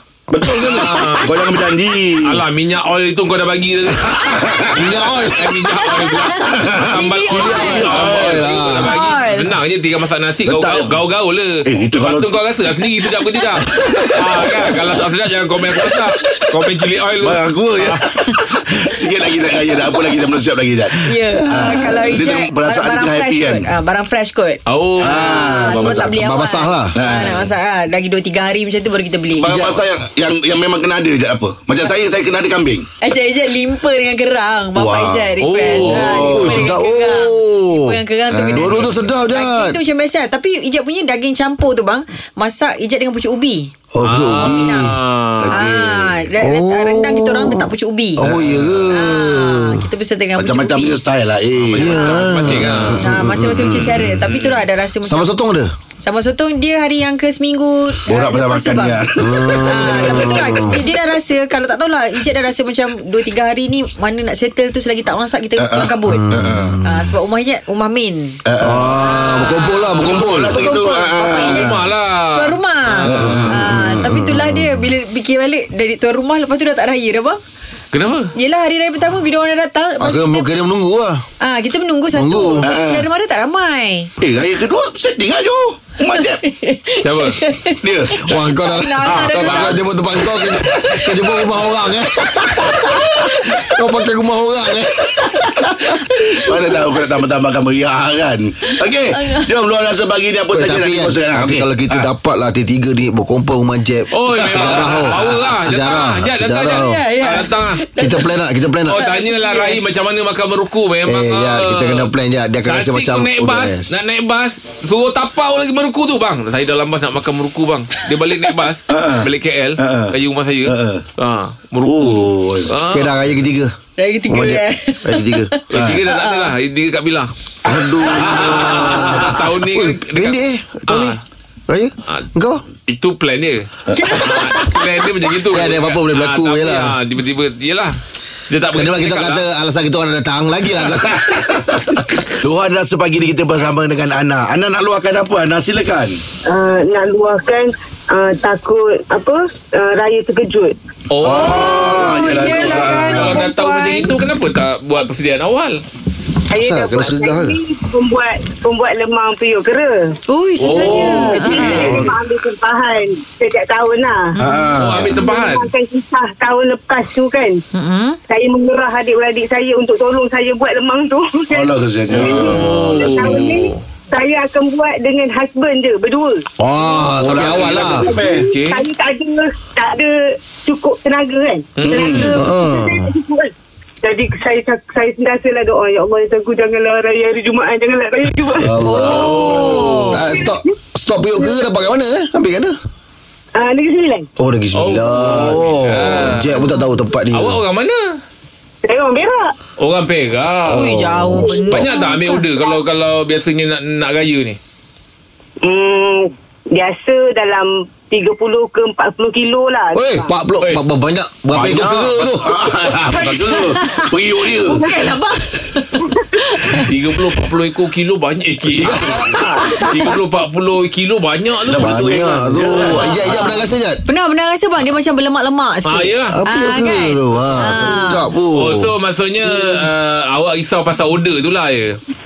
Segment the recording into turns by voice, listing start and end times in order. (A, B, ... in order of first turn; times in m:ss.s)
0:00.3-0:02.4 A
0:00.4-0:01.4 B
0:02.2-0:04.8 B
0:04.2-0:04.8 A
0:04.7-0:05.7 C
0:05.3-0:18.0 B
0:05.8-0:07.9 D
0:06.5-0:08.5 A
0:07.3-0:08.9 C
0:08.8-0:09.5 D
0:10.4-0:11.0 A
0:11.6-0:12.3 A
0:13.7-0:15.0 A
0:15.7-0:16.4 A
0:17.2-0:23.7 A
0:21.0-0:29.5 D
0:21.3-0:22.1 C
0:24.6-0:25.4 B
0:25.0-0:26.2 A
0:26.1-0:26.9 C
0:26.9-0:27.5 A
0:29.4-0:32.9 A
0:29.4-0:29.8 C
0:33.0-0:43.7 D
0:34.7-0:36.8 A
0:35.4-0:36.3 B
0:36.2-0:38.0 C
0:38.3-0:38.9 A
0:38.5-0:39.8 C
0:43.9-0:45.0 C
0:44.0-0:45.7 B
0:44.3-0:44.9 D
0:45.4-0:46.2 A
0:45.5-0:48.3 D
0:46.4-0:49.8 C
0:48.2-0:48.9 A
0:48.9-0:51.0 D
0:50.4-0:53.1 A
0:51.7-0:54.2 C
0:51.8-0:53.0 B
0:51.9-0:52.3 D
0:53.0-0:55.3 D
0:54.2-0:54.6 B
0:55.0-0:55.7 C
0:56.0-1:06.3 D
0:58.0-1:00.9 A
0:59.2-1:00.8 C
1:05.6-1:06.8 A
1:06.1-1:07.1 C
1:06.8-1:17.4 D
1:08.4-1:09.0 A
1:08.6-1:10.6 C
1:09.9-1:11.8 A
1:11.3-1:13.3 B
1:13.0-1:14.1 A
1:13.1-1:14.9 C
1:17.9-1:18.3 B
1:18.3-1:20.5 D
1:20.0-1:21.2 C
1:21.4-1:24.1 D
1:22.1-1:22.7 C
1:22.6-1:23.1 A
1:24.2-1:26.4 A
1:26.1-1:31.4 D
1:27.0-1:27.4 B
1:27.8-1:28.4 A
1:28.2-1:35.6 C
1:29.0-1:29.8 A
1:32.4-1:33.9 D
1:35.1-1:36.8 D
1:35.9-1:42.1 A
1:39.1-1:39.5 D
1:40.5-1:47.0 C
1:44.1-1:47.8 B
1:44.3-1:45.3 A
1:46.7-1:48.2 D
1:48.0-1:49.0 C
1:48.9-1:52.1 B
1:48.9-1:49.8 D
1:51.0-1:54.0 C
1:52.6-2:03.2 B
1:58.9-2:00.1 A
2:00.6-2:01.0 A
2:01.8-2:02.7 A
2:02.9-2:03.7 C
2:04.0-2:06.5 D
2:04.3-2:05.5 C
2:05.7-2:07.3 B
2:05.7-2:06.0 A
2:07.6-2:12.6 C
2:07.6-2:09.4 A
2:08.0-2:11.2 B
2:12.9-2:18.0 B
2:14.0-2:14.5 D
2:15.5-2:17.0 C
2:18.5-2:19.4 B
2:18.7-2:21.4 C
2:20.9-2:26.2 A
2:26.4-2:30.7 E
2:31.1-2:35.8 B
2:31.2-2:33.4 A
2:31.2-2:34.2 D
2:36.5-2:40.1 E
2:36.6-2:37.6 C
2:40.3-2:42.0 D
2:40.6-2:41.7 B
2:40.7-2:44.4 E
2:41.5-2:42.1 A
2:44.3-2:44.8 D
2:44.4-2:45.1 A
2:44.7-2:45.7 B
2:45.1-2:47.6 E
2:47.7-2:48.2 D
2:48.3-2:56.5 E
2:51.5-2:53.4 A
2:52.1-2:53.8 B
2:56.6-2:58.1 C
2:57.2-2:58.5 A
2:57.4-3:10.7 E
2:58.4-2:58.8 B
3:01.8-3:02.4 B
3:01.9-3:02.4 A
3:02.4-3:03.1 C
3:08.6-3:09.5 A
3:08.8-3:10.2 D
3:08.9-3:10.2 B
3:10.1-3:12.8 C
3:13.5-3:14.3 E
3:14.4-3:15.7 C
3:14.7-3:16.5 B
3:15.2-3:16.4 A
3:16.3-3:17.6 C
3:16.6-3:16.9 D
3:17.3-3:18.2 B
3:18.8-3:19.5 E
3:19.8-3:24.6 B
3:20.7-3:21.8 C
3:20.7-3:22.4 D
3:25.6-3:30.3 E
3:29.9-3:32.6 C
3:31.5-3:34.8 A
3:33.1-3:33.6 B
3:33.2-3:36.9 D
3:36.7-3:42.2 B
3:38.8-3:39.3 A
3:38.8-3:39.7 C
3:39.6-3:40.0 D
3:41.6-3:43.6 A
3:41.7-3:44.0 C
3:42.9-3:48.2 D
3:45.8-3:46.4 B
3:46.3-3:48.9 C
3:48.5-3:52.0 B